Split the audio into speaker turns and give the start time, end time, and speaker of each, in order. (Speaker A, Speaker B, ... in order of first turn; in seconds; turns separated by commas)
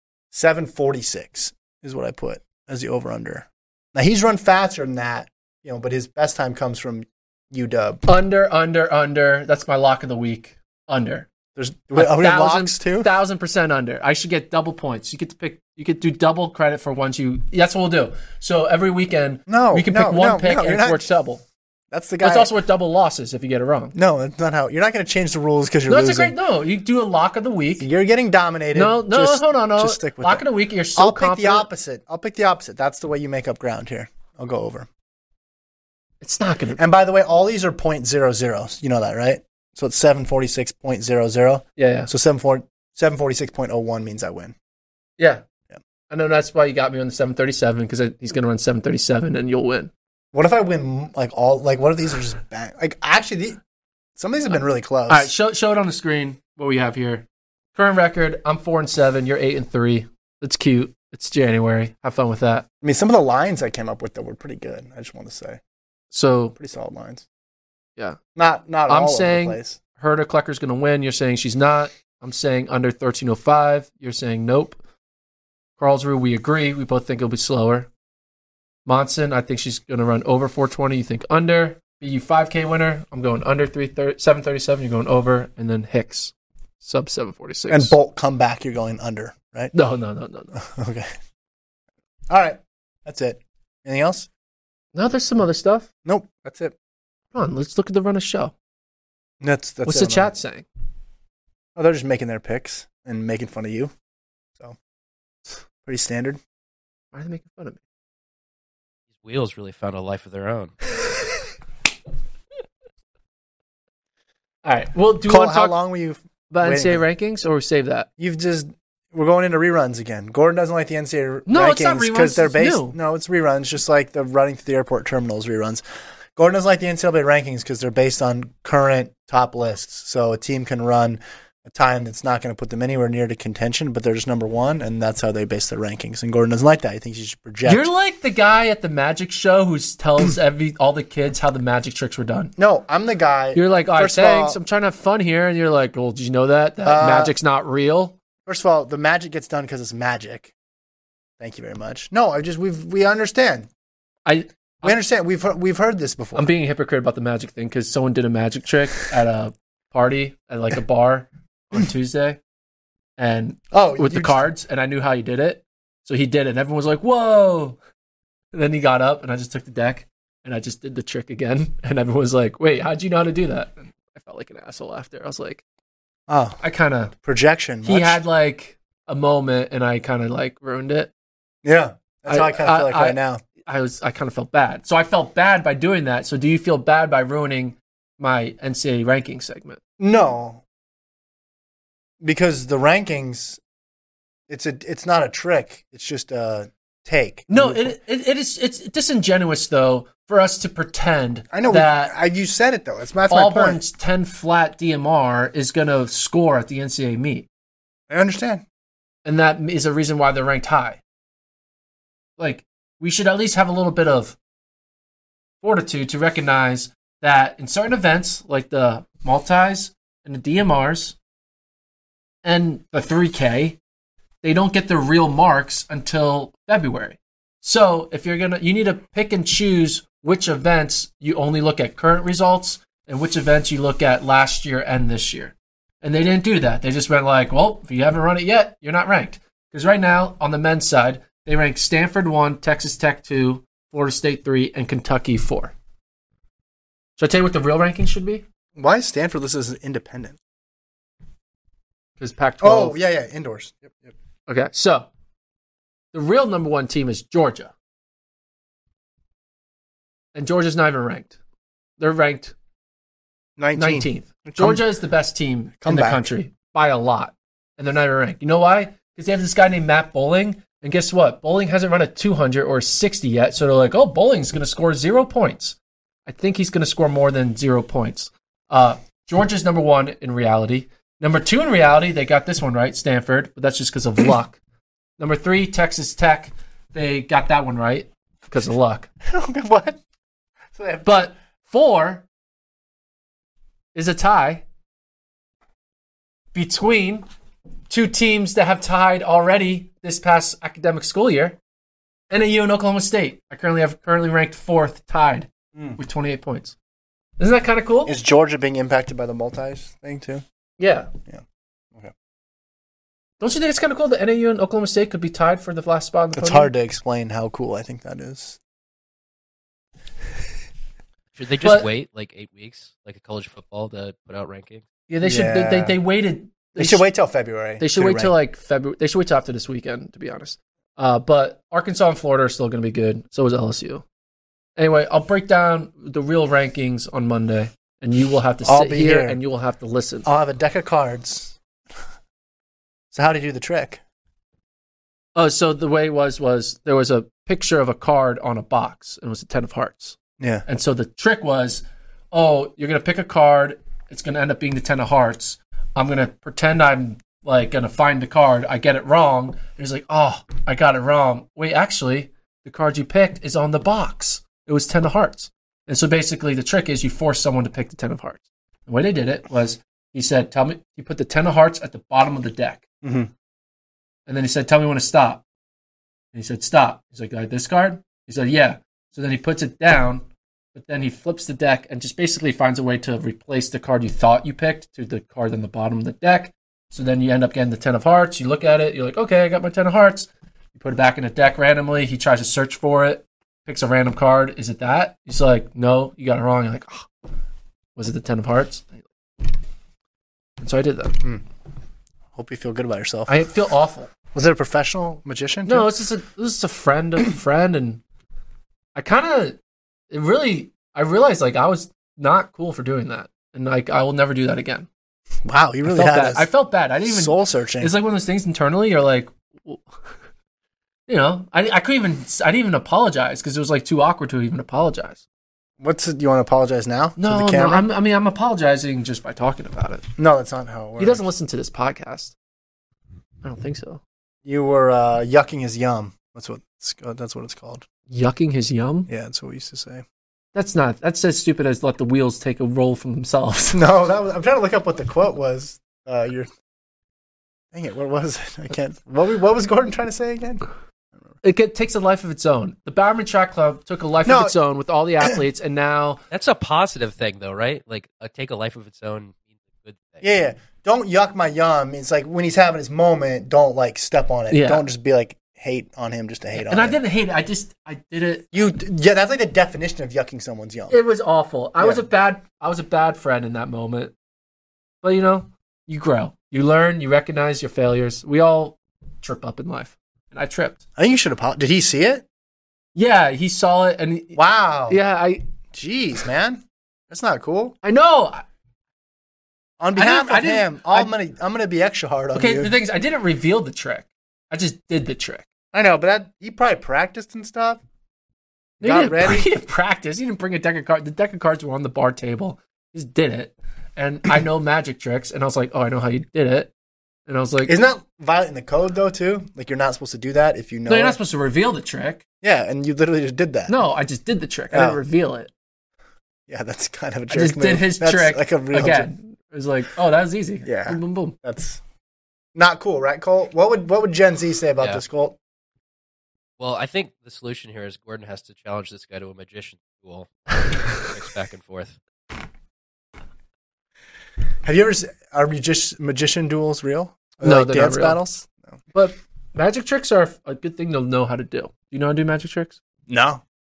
Speaker A: 0.3-8.0, Speaker B: 8.1-11.3, Speaker A: 11.6-13.1, Speaker B: 11.9-21.4, Speaker A: 19.5-21.1, Speaker A: 21.9-22.5, Speaker B: 22.2-23.9, Speaker A: 23.9-26.4, Speaker B: 25.9-27.9, Speaker A: 27.8-34.9, Speaker B: 28.7-31.7, Speaker B: 36.2-36.8, Speaker A: 36.8-44.5, Speaker B: 41.8-42.1, Speaker B: 45.2-45.4, Speaker B: 46.1-49.9, Speaker A: 50.3-53.6, Speaker A: 54.1-55.3, Speaker B: 55.1-62.6, Speaker A: 62.8-65.6, Speaker B: 66.1-66.5, Speaker A: 66.5-67.2, Speaker A: 68.3-69.8, Speaker B: 68.9-74.8, Speaker B: 75.8-77.9, Speaker B: 78.8-87.9, Speaker A: 87.7-89.7, Speaker B: 89.7-90.5, Speaker A: 90.5-91.1, Speaker A: 92.3-94.3, Speaker B: 94.9-95.9, Speaker A: 96.0-96.7, Speaker B: 97.3-98.5, Speaker A: 99.4-100.3, Speaker B: 99.8-100.6, Speaker A: 101.8-103.9, Speaker A: 105.8-106.4, Speaker B: 107.1-107.8, Speaker C: 109.2-110.7, Speaker B: 114.6-115.8, Speaker A: 115.2-117.0, Speaker B: 116.5-118.1, Speaker A: 118.2-125.8, Speaker B: 121.5-123.0, Speaker A: 126.3-137.9, Speaker B: 137.6-142.5, Speaker A: 142.6-144.6, Speaker B: 143.5-148.2, Speaker A: 146.8-147.3, Speaker A: 148.4-150.5, Speaker A: 151.4-153.7, Speaker B: 154.2-154.9, Speaker A: 154.8-156.5, Speaker B: 156.3-162.4, Speaker B: 163.2-167.8, Speaker A: 163.7-164.4, Speaker B: 168.5-175.6, Speaker A: 176.3-176.6, Speaker B: 176.6-177.1, Speaker A: 177.1-178.2, Speaker B: 177.8-181.1, Speaker A: 181.6-183.4, Speaker B: 182.3-189.8, Speaker A: 190.0-190.6, Speaker A: 192.2-193.6, Speaker A: 194.5-197.9, Speaker B: 197.5-202.1, Speaker A: 201.5-203.8, Speaker B: 203.3-207.5, Speaker A: 208.1-208.6, Speaker B: 209.2-211.0, Speaker B: 212.4-214.3, Speaker B: 215.6-221.2, Speaker B: 222.4-223.8, Speaker B: 224.4-245.7, Speaker B: 247.2-248.4, Speaker A: 248.8-250.4, Speaker B: 252.2-253.0, Speaker A: 252.6-254.1, Speaker B: 254.5-255.1, Speaker B: 256.1-257.7, Speaker B: 260.3-261.4, Speaker B: 262.0-262.5, Speaker A: 263.6-264.9, Speaker B: 263.8-284.6, Speaker A: 265.8-266.3, Speaker B: 285.2-289.1, Speaker A: 289.2-290.0, Speaker A: 290.7-291.4, Speaker B: 291.0-292.2, Speaker B: 293.9-294.6, Speaker B: 296.5-297.2, Speaker B: 297.9-301.6, Speaker B: 302.3-306.7, Speaker B: 307.4-308.1, Speaker A: 308.0-310.4, Speaker B: 310.8-311.1, Speaker B: 313.4-316.7, Speaker A: 316.3-318.6, Speaker C: 321.3-324.8, Speaker B: 321.6-321.9, Speaker B: 325.1-327.0, Speaker A: 325.2-326.0, Speaker A: 326.8-328.3, Speaker B: 327.8-334.0, Speaker B: 334.8-340.3, Speaker A: 338.6-339.4, Speaker A: 340.2-341.6, Speaker A: 343.1-344.0, Speaker B: 345.3-372.8, Speaker A: 350.4-350.6, Speaker A: 373.0-373.3, Speaker B: 374.3-375.4, Speaker B: 376.3-397.1, Speaker B: 397.9-399.0, Speaker B: 400.6-401.2, Speaker A: 402.3-403.4, Speaker B: 403.3-404.1, Speaker A: 404.3-405.9, Speaker B: 405.6-408.0, Speaker B: 408.9-409.6, Speaker B: 410.1-414.9, Speaker A: 415.4-416.5, Speaker B: 415.9-419.8, Speaker A: 417.0-417.9, Speaker B: 421.1-425.2, Speaker A: 425.8-427.9, Speaker B: 427.2-430.1, Speaker A: 430.2-431.2, Speaker B: 431.0-432.3, Speaker B: 433.4-434.0, Speaker A: 434.4-437.9, Speaker B: 438.1-439.1, Speaker A: 439.1-440.0, Speaker B: 440.5-443.8, Speaker A: 443.7-446.5, Speaker A: 447.7-450.6, Speaker B: 451.4-456.2, Speaker A: 454.2-454.5, Speaker C: 456.3-460.4, Speaker A: 460.2-467.0, Speaker B: 464.5-464.9, Speaker B: 466.5-468.6, Speaker A: 468.5-471.0, Speaker B: 470.9-474.1, Speaker A: 471.8-472.1, Speaker B: 475.0-480.8, Speaker A: 480.9-482.2, Speaker B: 482.9-485.4, Speaker A: 484.4-485.0, Speaker A: 485.7-487.7, Speaker B: 487.8-488.4, Speaker A: 489.8-492.7, Speaker B: 489.9-491.1, Speaker B: 492.3-495.4, Speaker A: 495.7-497.8, Speaker A: 498.8-499.5, Speaker B: 498.8-506.7, Speaker B: 507.3-507.8, Speaker A: 507.6-511.2, Speaker B: 510.9-512.2, Speaker A: 512.4-513.8, Speaker B: 513.7-515.5, Speaker A: 514.7-515.0, Speaker A: 516.5-519.1, Speaker B: 517.3-521.3, Speaker A: 520.6-521.8, Speaker A: 522.5-525.4, Speaker C: 526.6-532.0, Speaker A: 534.6-538.8, Speaker B: 537.4-538.2, Speaker B: 538.9-542.8, Speaker A: 543.1-543.4